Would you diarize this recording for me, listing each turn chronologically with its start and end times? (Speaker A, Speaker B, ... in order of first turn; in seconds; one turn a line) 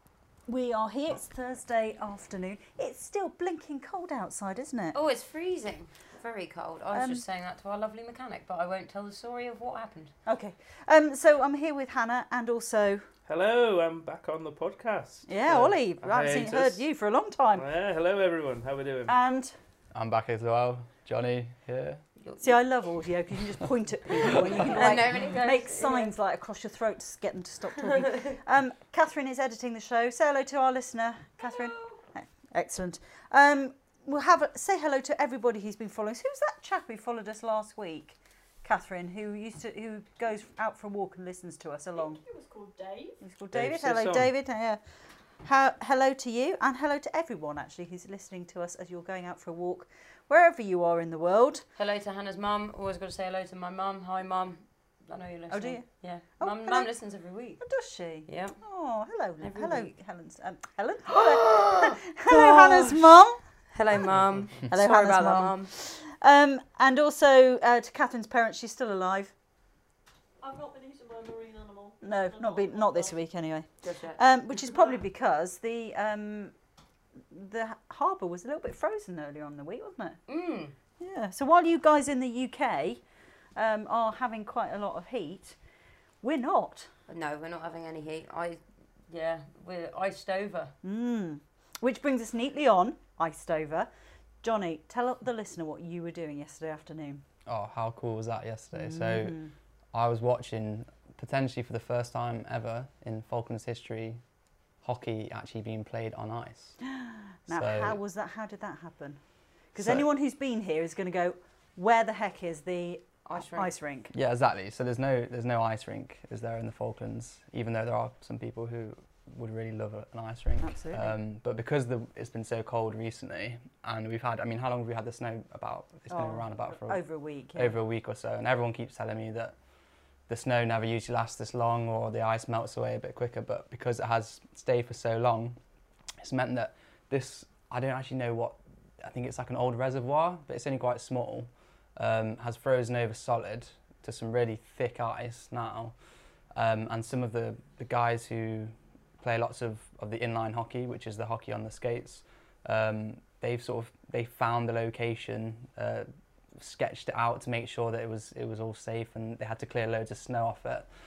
Speaker A: 0.5-5.0
Speaker B: 4.9-10.1
Speaker A: 6.9-7.2
Speaker A: 10.2-13.1
Speaker C: 13.3-16.8
Speaker A: 15.3-17.6
Speaker C: 17.5-19.1
Speaker A: 19.1-19.5
Speaker D: 19.9-22.0
Speaker B: 22.2-22.6
Speaker A: 22.4-42.2
Speaker B: 24.7-26.1
Speaker B: 28.0-28.3
Speaker B: 31.4-32.0
Speaker E: 42.0-43.2
Speaker A: 43.2-44.8
Speaker C: 43.5-44.3
Speaker A: 45.4-51.6
Speaker B: 51.8-57.6
Speaker A: 55.5-56.9
Speaker A: 57.6-63.4
Speaker B: 58.2-58.6
Speaker B: 59.4-59.9
Speaker B: 61.1-63.1
Speaker B: 63.7-65.7
Speaker C: 64.1-64.5
Speaker A: 64.7-69.3
Speaker E: 70.4-73.2
Speaker A: 72.0-76.5
Speaker B: 73.8-74.2
Speaker A: 77.3-80.2
Speaker B: 80.3-80.7
Speaker A: 81.0-83.0
Speaker A: 83.5-85.6
Speaker A: 86.2-86.9
Speaker B: 87.1-90.7
Speaker A: 90.8-93.9
Speaker A: 94.4-97.2
Speaker D: 97.5-99.4
Speaker A: 98.7-99.5
Speaker D: 99.9-104.2
Speaker D: 104.8-106.8
Speaker A: 106.8-109.2
Speaker D: 107.5-108.0
Speaker A: 109.7-114.1
Speaker D: 109.8-110.1
Speaker B: 113.2-113.7
Speaker D: 114.1-127.0
Speaker A: 120.6-121.1
Speaker A: 126.1-127.7
Speaker D: 127.5-129.6
Speaker D: 130.3-135.6
Speaker D: 136.2-145.9
Speaker D: 146.5-160.9